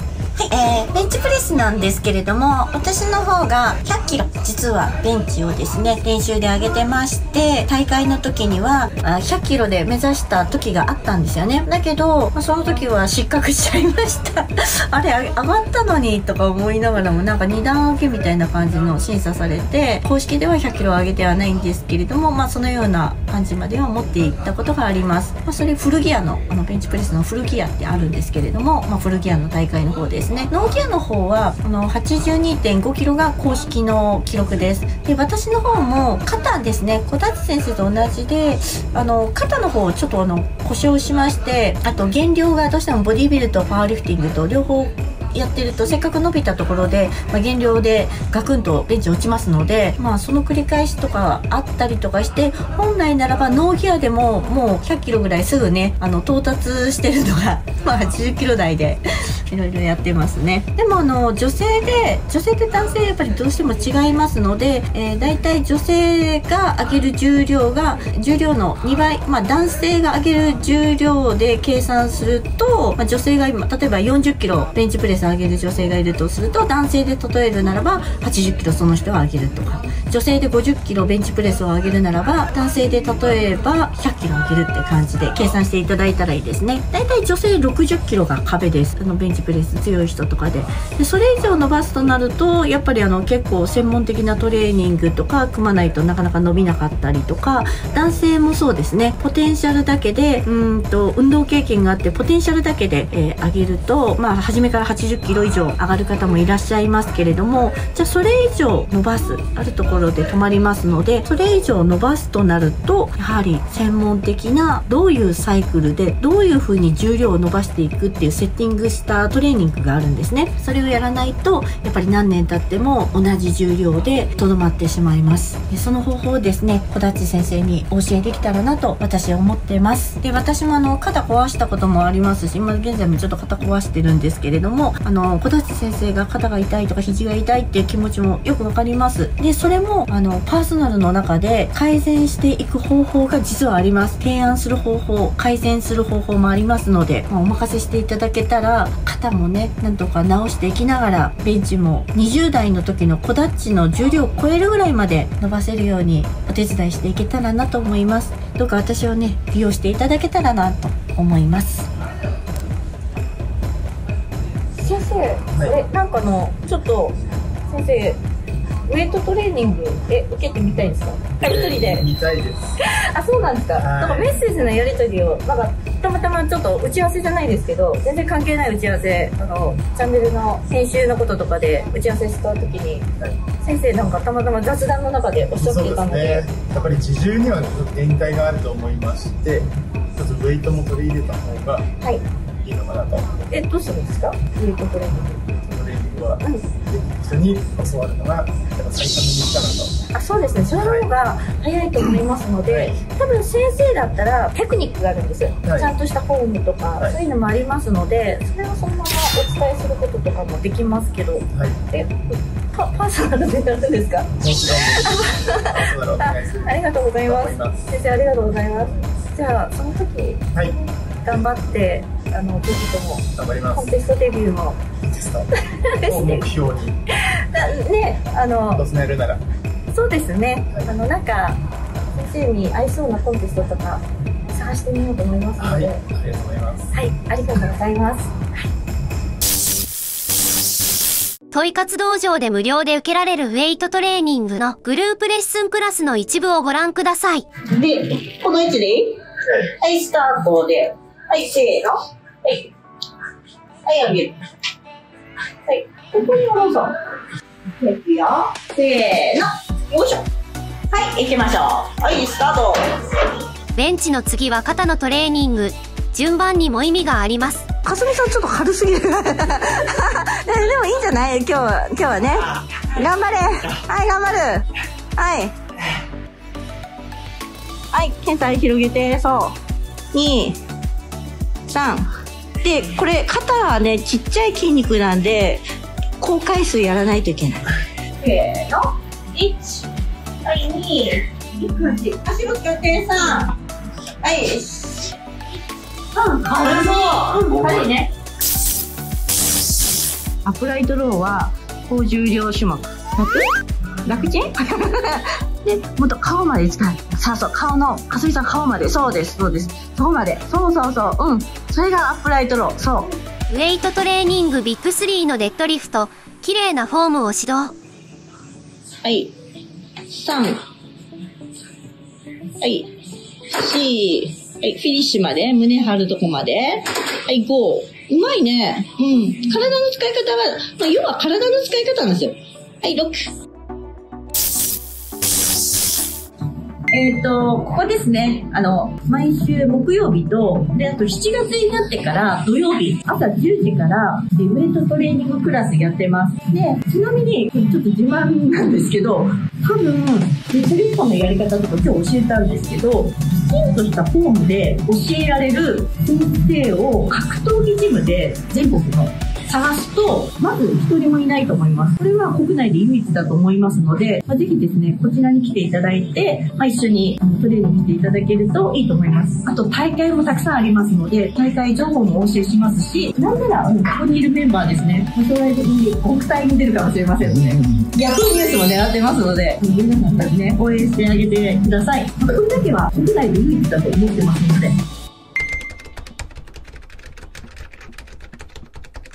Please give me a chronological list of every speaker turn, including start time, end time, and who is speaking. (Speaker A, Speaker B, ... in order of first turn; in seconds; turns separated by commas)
Speaker A: 0.3-161.9, Speaker B: 164.8-167.2, Speaker C: 165.5-165.8, Speaker B: 167.7-168.2, Speaker B: 168.9-172.1, Speaker C: 171.4-172.8, Speaker B: 173.0-186.4, Speaker C: 173.8-174.4, Speaker C: 185.5-191.8, Speaker C: 192.6-193.4, Speaker B: 193.5-195.4, Speaker C: 195.5-199.9, Speaker B: 200.1-214.3, Speaker C: 200.8-201.1, Speaker C: 202.7-203.0, Speaker C: 205.6-205.9, Speaker C: 211.5-211.8, Speaker C: 214.3-217.8, Speaker B: 214.9-220.4, Speaker B: 221.2-224.8, Speaker C: 223.3-223.9, Speaker C: 225.0-225.5, Speaker B: 225.8-226.5, Speaker C: 226.0-227.0, Speaker B: 227.5-228.8, Speaker C: 228.7-229.4, Speaker B: 229.9-231.6, Speaker B: 232.1-236.0, Speaker C: 235.6-236.9, Speaker B: 236.9-238.3, Speaker D: 241.5-247.4, Speaker B: 247.6-252.7, Speaker B: 253.8-254.3, Speaker B: 255.7-256.9, Speaker B: 257.8-260.2, Speaker B: 260.9-263.2, Speaker D: 263.7-267.6, Speaker B: 267.8-274.6, Speaker B: 275.2-275.5, Speaker B: 277.9-279.5, Speaker B: 280.1-280.6, Speaker B: 281.7-282.1, Speaker B: 282.6-285.6, Speaker B: 286.2-287.6, Speaker B: 288.2-289.9, Speaker B: 290.4-293.5, Speaker B: 294.2-295.1, Speaker B: 296.1-298.1, Speaker B: 300.4-303.5, Speaker B: 304.0-313.1, Speaker D: 313.5-317.7, Speaker B: 319.0-319.3, Speaker B: 320.1-320.6, Speaker B: 322.6-322.9, Speaker B: 323.5-333.3, Speaker B: 336.9-384.7